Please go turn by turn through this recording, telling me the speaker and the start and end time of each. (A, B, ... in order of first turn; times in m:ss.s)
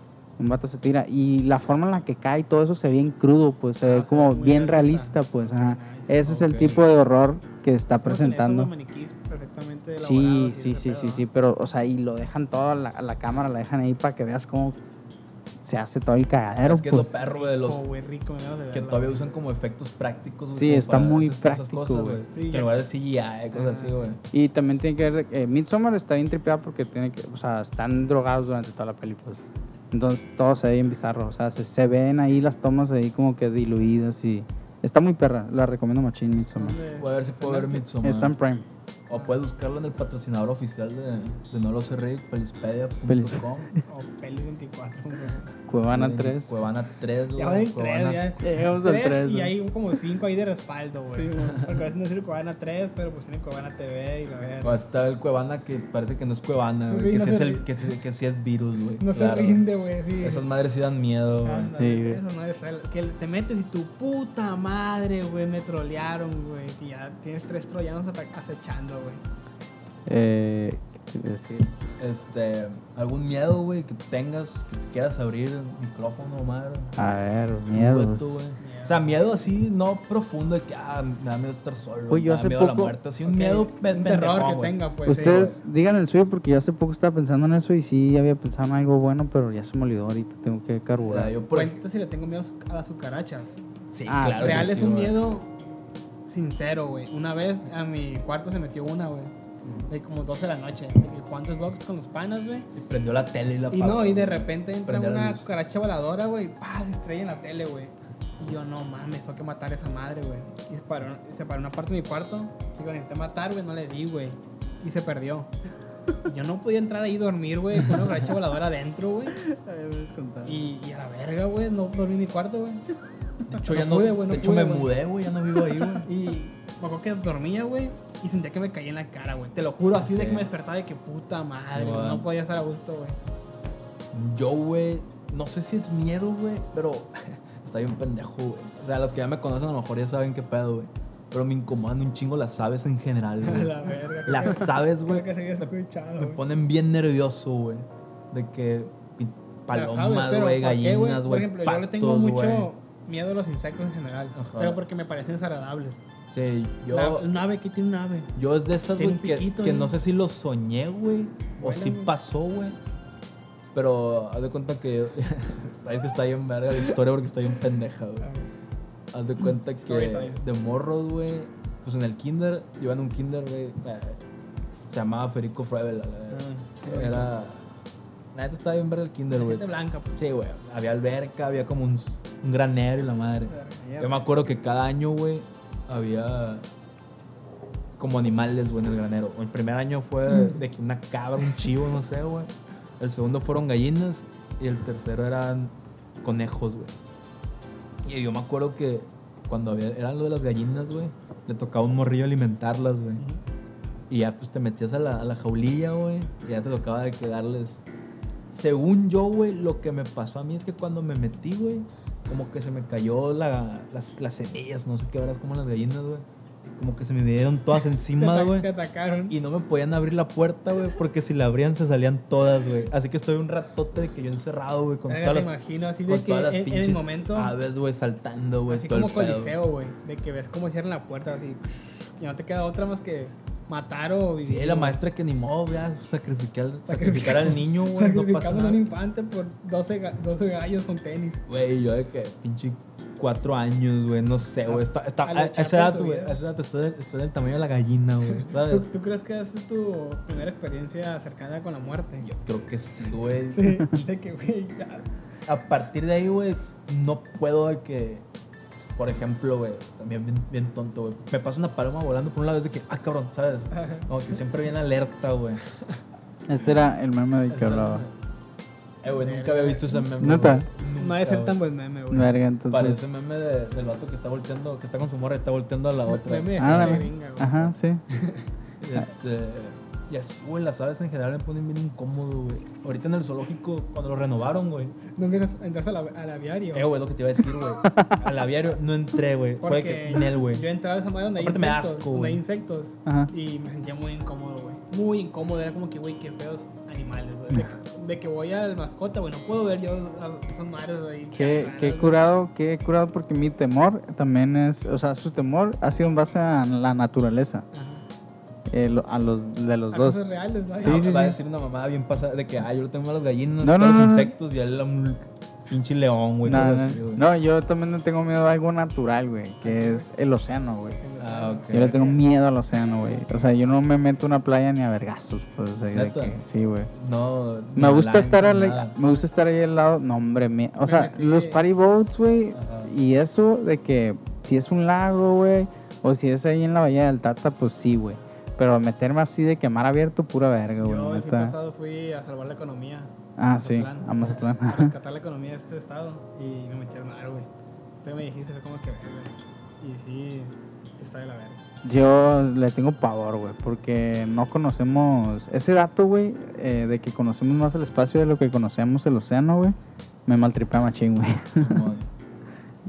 0:00.4-0:08.7 A
0:03.8-0:06.2 B
0:06.2-0:06.8 C
0:08.0-0:11.2 B
0:10.0-0:14.8 A
0:15.6-0:17.1 A
0:16.6-0:17.8 C
0:17.1-0:19.3 B
0:18.7-0:24.2 C
0:20.5-0:22.2 A
0:22.3-0:22.7 B
0:23.5-0:24.2 B
0:24.3-0:36.8 A
0:36.5-0:37.9 B
0:36.9-0:38.4 C
0:38.0-0:38.6 A
0:39.1-0:43.7 C
0:39.1-0:39.4 B
0:43.1-0:43.8 A
0:43.9-0:45.5 B
0:45.7-0:46.7 A
0:45.9-0:48.3 C
0:47.3-0:54.8 B
0:48.4-0:49.5 A
0:51.1-0:51.9 C
0:54.6-0:59.6 C
0:56.9-0:57.7 B
0:59.0-1:00.4 B
1:00.2-1:01.7 C
1:01.4-1:09.2 B
1:01.7-1:02.2 A
1:10.1-1:11.7 A
1:12.0-1:17.0 C
1:17.0-1:18.4 A
1:17.7-1:25.6 C
1:18.6-1:19.4 B
1:22.1-1:23.0 A
1:23.2-1:25.6 B
1:25.0-1:31.3 A
1:31.0-1:31.8 C
1:31.5-1:33.6 B
1:33.9-1:35.1 C
1:34.1-1:35.1 A
1:34.2-1:35.5 B
1:36.3-1:39.3 B
1:39.9-1:42.7 B
1:42.7-1:45.5 C
1:43.7-1:55.5 B
1:56.2-1:59.4 B
1:59.3-2:00.6 A
2:00.4-2:02.8 B
2:03.5-2:06.1 C
2:03.6-2:04.9 B
2:06.0-2:13.2 B
2:10.0-2:10.5 C
2:11.7-2:12.3 C
2:14.1-2:32.7 C
2:23.4-2:26.4 B
2:29.7-2:36.0 B
2:34.3-2:34.8 C
2:36.3-2:37.3 C
2:36.9-2:38.3 B
2:38.3-2:42.8 C
2:38.9-2:39.9 B
2:41.6-2:42.1 B
2:43.7-2:48.3 C
2:48.2-2:48.5 B
2:49.1-2:54.2 C
2:49.8-2:50.4 B
2:54.9-2:57.7 C
2:56.3-2:57.3 B
2:58.3-3:06.7 C
2:59.3-3:00.1 B
3:03.5-3:04.2 B
3:08.0-3:16.9 C
3:18.0-3:23.2 C
3:24.1-3:27.8 C
3:28.5-3:38.7 C
3:38.1-3:39.4 B
3:39.3-3:45.5 C
3:45.1-3:47.5 B
3:46.0-3:49.6 C
3:48.7-3:55.0 B
3:54.4-3:58.9 C
3:56.9-4:01.4 B
4:01.5-4:08.9 C
4:04.6-4:06.4 B
4:08.3-4:12.3 B
4:12.2-4:13.9 C
4:13.5-4:15.1 B
4:15.4-4:18.2 C
4:19.0-4:25.6 C
4:23.7-4:24.0 B
4:26.5-4:28.0 A
4:27.5-4:28.1 C
4:29.0-4:31.6 C
4:29.1-4:30.1 B
4:30.2-4:30.6 A
4:30.9-4:32.4 B
4:32.1-4:33.0 A
4:32.7-4:37.1 C
4:36.1-4:38.4 B
4:36.6-4:38.0 A
4:38.8-4:45.0 C
4:45.1-4:46.9 B
4:46.7-4:50.6 C
4:47.8-4:48.2 A
4:49.6-5:02.2 B
4:51.4-4:52.4 C
4:53.0-4:53.3 A
5:01.3-5:07.6 A
5:07.7-5:08.0 B
5:08.7-5:10.2 A
5:09.9-5:11.3 B
5:10.8-5:11.4 A
5:10.8-5:17.2 C
5:13.6-5:14.3 A
5:16.4-5:21.0 A
5:19.6-5:20.1 B
5:21.0-5:22.2 B
5:21.2-5:22.0 C
5:21.7-5:26.9 A
5:25.9-5:26.4 C
5:26.9-5:28.9 C
5:27.8-5:41.5 A
5:30.8-5:31.6 B
5:32.5-5:32.9 C
5:40.8-5:47.5 B
5:43.4-5:44.9 A
5:48.0-5:51.6 B
5:51.8-5:59.7 A
6:00.3-6:01.8 A
6:01.6-6:02.1 C